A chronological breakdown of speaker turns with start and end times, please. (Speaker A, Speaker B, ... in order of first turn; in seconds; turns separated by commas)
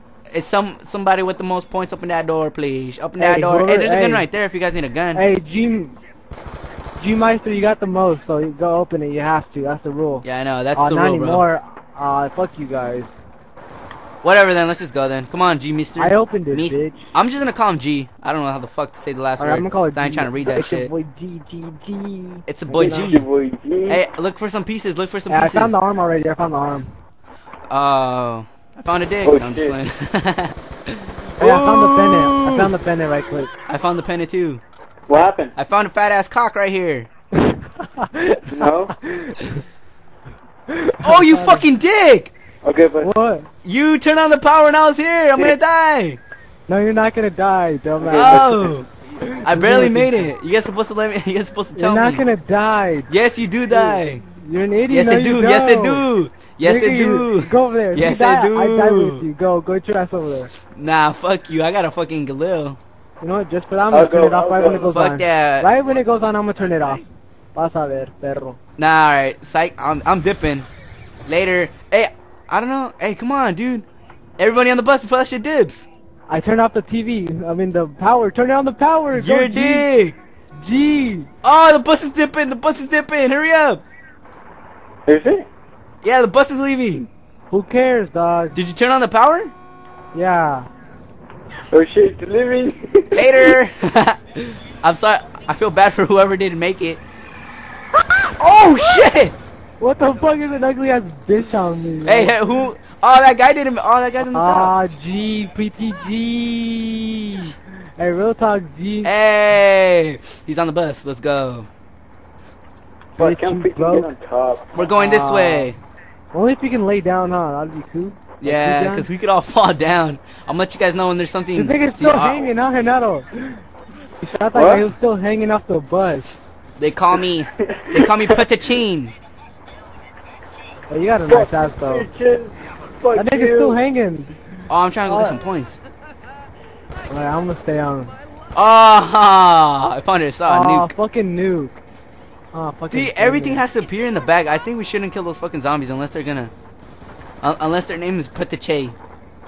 Speaker A: 0.3-5.2, Speaker B: 3.2-4.3, Speaker B: 5.2-6.0, Speaker B: 7.0-10.2, Speaker A: 10.2-11.5, Speaker B: 10.8-13.1, Speaker A: 14.2-20.9, Speaker B: 16.0-17.1, Speaker B: 19.4-23.1, Speaker A: 22.5-23.2, Speaker C: 22.8-24.0, Speaker A: 23.9-25.8, Speaker B: 25.3-26.9, Speaker A: 27.7-32.7, Speaker C: 29.2-29.8, Speaker B: 31.4-33.5, Speaker A: 33.7-34.6, Speaker C: 35.1-35.5, Speaker A: 35.6-37.1, Speaker B: 37.4-39.6, Speaker C: 38.5-38.9, Speaker B: 40.7-41.7, Speaker A: 41.0-42.3, Speaker C: 42.6-43.1, Speaker B: 43.0-43.5, Speaker A: 43.6-46.2, Speaker B: 46.7-50.3, Speaker C: 48.0-48.5, Speaker A: 48.1-48.9, Speaker A: 49.4-52.2, Speaker B: 51.8-53.1, Speaker A: 53.1-54.2, Speaker B: 53.7-56.1, Speaker A: 54.9-59.2, Speaker B: 56.6-60.5, Speaker A: 60.5-62.8, Speaker B: 63.2-68.6, Speaker C: 63.9-64.9, Speaker A: 64.8-65.7, Speaker A: 68.8-70.7, Speaker A: 71.3-73.8, Speaker A: 74.4-75.9, Speaker B: 76.3-79.9, Speaker A: 79.1-80.2, Speaker B: 80.6-81.3, Speaker A: 81.4-83.8, Speaker C: 85.1-85.5, Speaker A: 86.0-87.1, Speaker B: 87.5-88.6, Speaker A: 88.5-89.5, Speaker B: 90.1-90.7, Speaker C: 91.7-93.5, Speaker A: 93.2-97.0, Speaker B: 98.0-98.3, Speaker A: 98.4-99.3, Speaker B: 99.8-102.4, Speaker A: 102.0-104.7, Speaker B: 104.2-109.2, Speaker A: 109.0-111.7, Speaker B: 113.2-114.1, Speaker C: 113.2-114.7, Speaker A: 114.7-115.8, Speaker B: 115.0-115.7, Speaker B: 116.3-119.1, Speaker A: 118.4-122.5, Speaker B: 121.5-123.6, Speaker B: 124.2-126.3, Speaker C: 124.5-124.9, Speaker A: 126.8-129.2, Speaker C: 127.6-128.4, Speaker B: 130.9-132.1, Speaker C: 131.3-133.8, Speaker B: 133.1-134.4, Speaker A: 134.7-135.8, Speaker B: 135.0-135.4, Speaker B: 137.1-138.1, Speaker A: 138.6-140.9, Speaker B: 140.5-141.8, Speaker B: 142.5-143.6, Speaker A: 142.9-146.5, Speaker A: 147.4-149.0